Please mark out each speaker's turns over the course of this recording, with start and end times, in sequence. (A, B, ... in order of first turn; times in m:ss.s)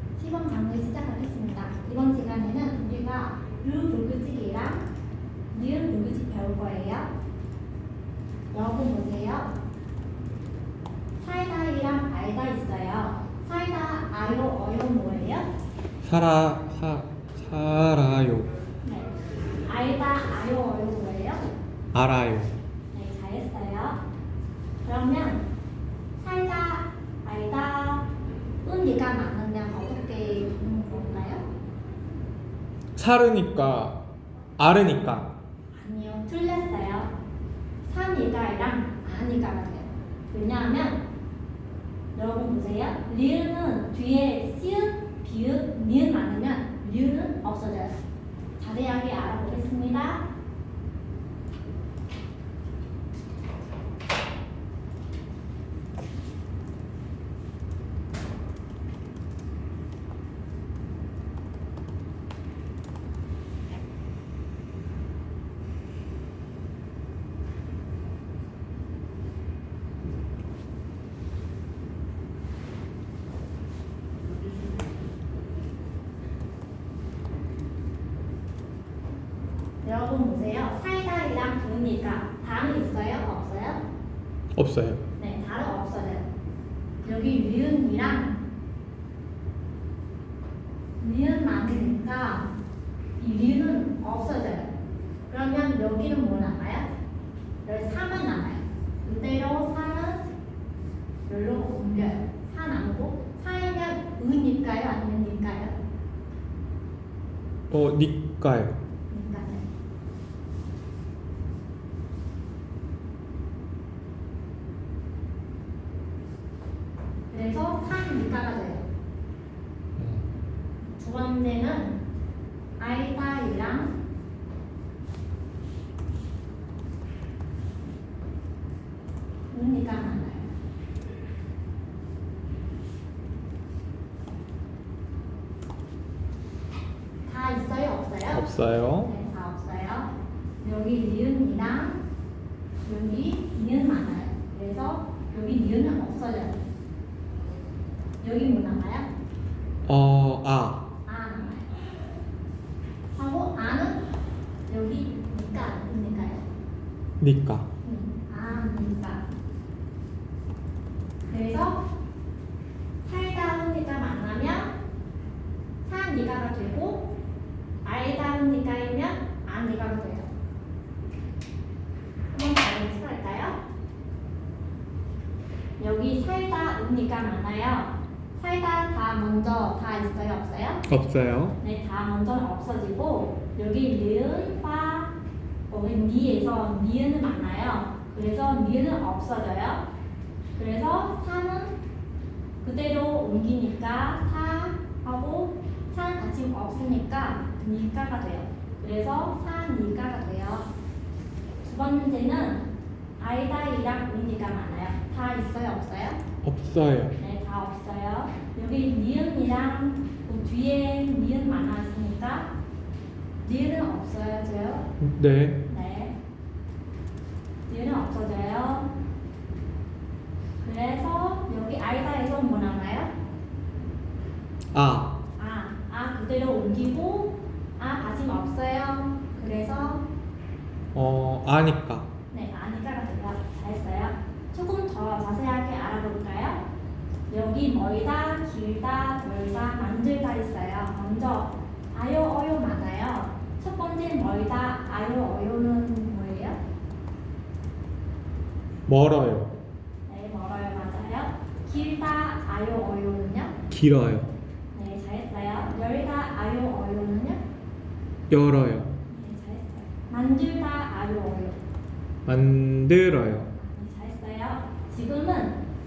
0:00.2-0:04.8 A
0:05.5-0:07.1 A
0:08.5-0:09.5 A
0:11.2-0:15.4 A
0:16.0-0:18.5 B
0:18.8-0:19.1 A
0:19.7-0:21.4 A
0:21.9-0:22.5 B
0:22.9-0:24.0 A
0:24.8-0:25.4 A
0:26.2-0:28.1 A
0:28.6-0:31.4 A
0:33.0-0:34.0 B
0:34.6-0:35.3 B
0:35.7-0:37.1 A
0:37.8-0:41.0 A
0:42.1-0:48.0 A
0:48.6-0:50.2 A
1:19.8-1:23.8 A
1:24.5-1:25.0 B
1:25.2-1:26.2 A
1:27.0-1:28.4 A
1:31.0-1:32.5 A
1:33.2-1:34.7 A
1:35.3-1:36.8 A
1:37.6-1:40.2 A
1:41.3-1:45.7 A
1:47.7-1:48.8 B
1:49.1-1:49.6 A
1:57.3-1:58.8 A
2:00.0-2:00.3 B
2:00.8-2:02.0 A
2:02.8-2:03.9 A
2:09.5-2:10.5 A
2:17.2-2:20.1 A
2:18.3-2:19.1 B
2:20.6-2:22.0 A
2:22.8-2:26.6 A
2:28.2-2:29.1 A
2:29.8-2:30.8 B
2:31.0-2:31.7 A
2:33.1-2:34.0 A
2:34.7-2:36.4 A
2:37.2-2:37.7 B
2:37.8-2:39.2 A
2:41.3-2:41.8 A
2:43.0-2:44.7 A
2:45.8-2:47.1 A
2:47.8-2:50.3 A
2:52.3-2:53.6 A
2:55.8-3:00.8 A
3:00.9-3:01.6 B
3:01.6-3:05.1 A
3:05.7-3:09.8 A
3:10.6-3:11.7 A
3:12.6-3:20.6 A
3:21.6-3:22.6 A
3:23.2-3:26.2 A
3:26.4-3:27.1 B
3:27.2-3:32.5 A
3:33.4-3:34.8 A
3:35.0-3:35.6 B
3:35.7-3:36.1 A
3:37.7-3:38.9 A
3:40.6-3:43.1 A
3:44.7-3:45.2 B
3:45.4-3:50.0 A
3:50.9-3:52.1 B
3:52.3-3:56.6 A
3:57.3-4:06.6 A
4:08.9-4:09.5 B
4:10.1-4:13.5 A
4:13.7-4:14.3 B
4:14.7-4:17.4 A
4:18.3-4:18.9 B
4:19.1-4:21.6 A
4:22.2-4:23.5 B
4:23.6-4:25.6 A